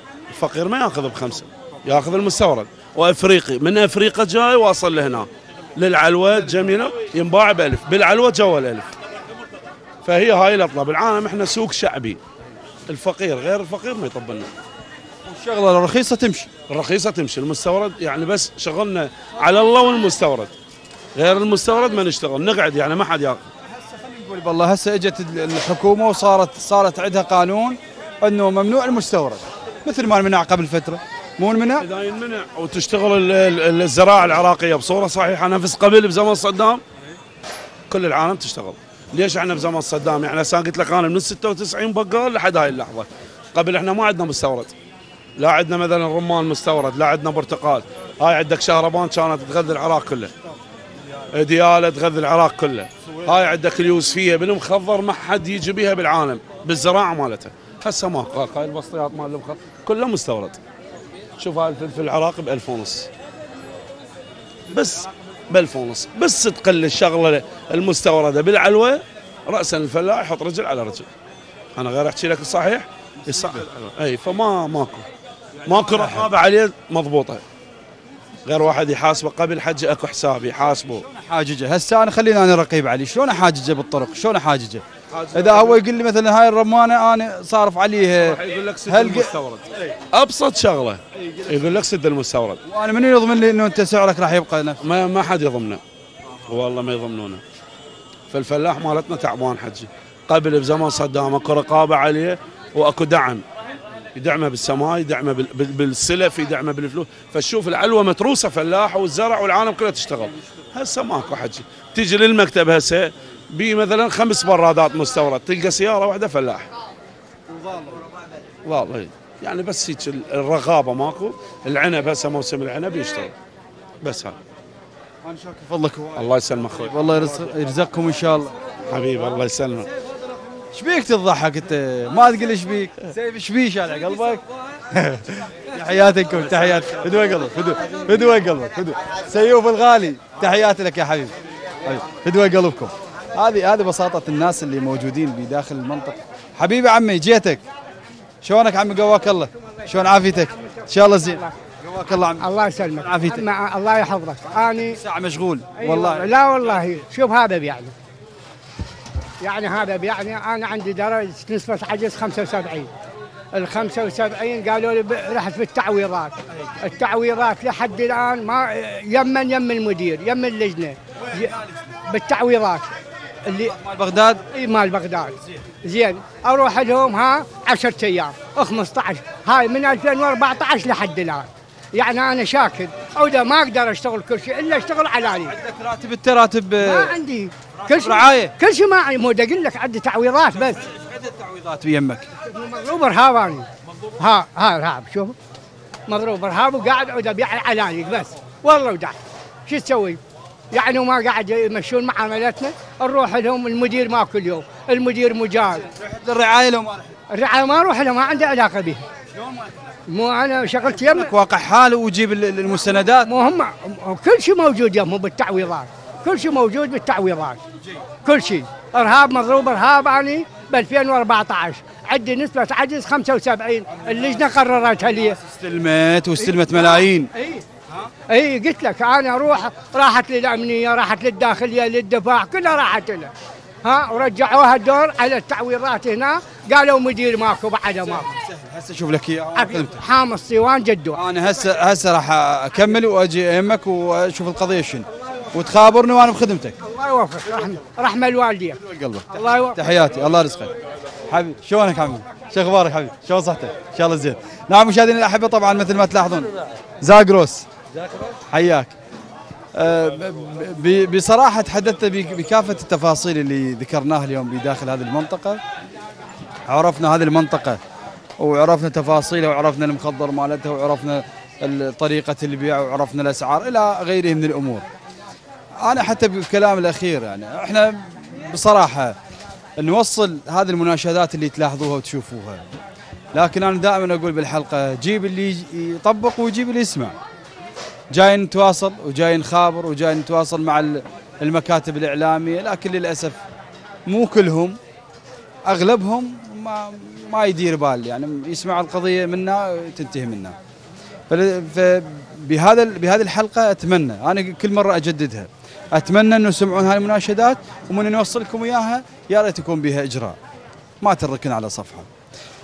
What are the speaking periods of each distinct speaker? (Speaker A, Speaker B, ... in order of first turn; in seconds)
Speaker A: 0.3-8.9, 10.0-12.2, 12.9-14.5, 16.7-20.5, 21.1-23.4, 31.8-36.8, 37.9-44.7, 45.4-50.3, 51.3-60.6, 61.4-63.1, 64.7-71.1, 71.8-75.1, 75.7-77.4, 78.5-81.1, 85.1-85.8, 88.1-92.6, 94.8-95.8, 96.5-97.4, 98.3-103.4, 104.2-116.7, 118.6-123.3, 124.0-124.4, 126.2-127.8, 128.9-129.9, 136.4-137.4
Speaker B: 6.3-6.7, 15.2-16.5, 23.7-31.9, 73.2-73.7, 75.6-76.3, 80.9-89.4, 91.2-91.8, 92.7-94.8, 117.5-118.1, 125.2-128.6, 130.7-147.6, 148.4-153.5, 154.5-156.4, 171.2-172.0, 173.5-174.4, 185.4-187.2, 187.8-188.5, 190.5-192.3, 205.7-207.2, 209.3-209.9, 210.9-213.3, 223.9-227.3, 238.0-240.0, 241.2-246.8, 248.8-250.7, 251.3-257.7, 258.4-258.9, 259.7-265.6, 266.7-267.8, 268.4-274.9, 275.8-279.2, 279.8-282.7, 283.3-287.2, 288.1-293.4, 294.1-294.8, 295.7-300.6, 301.3-310.4, 311.0-312.1
Speaker C: 149.8-151.5, 152.4-155.0, 155.8-157.9, 159.4-162.9, 163.5-171.5, 172.1-172.9, 173.4-173.7, 174.5-185.5, 186.8-190.8, 192.5-193.7, 194.2-195.3, 196.1-200.2, 200.7-205.9, 207.3-209.0, 210.1-211.3, 213.3-217.6, 218.2-225.4, 226.4-227.6, 228.3-233.3, 233.8-238.3, 239.6-241.2, 246.8-249.8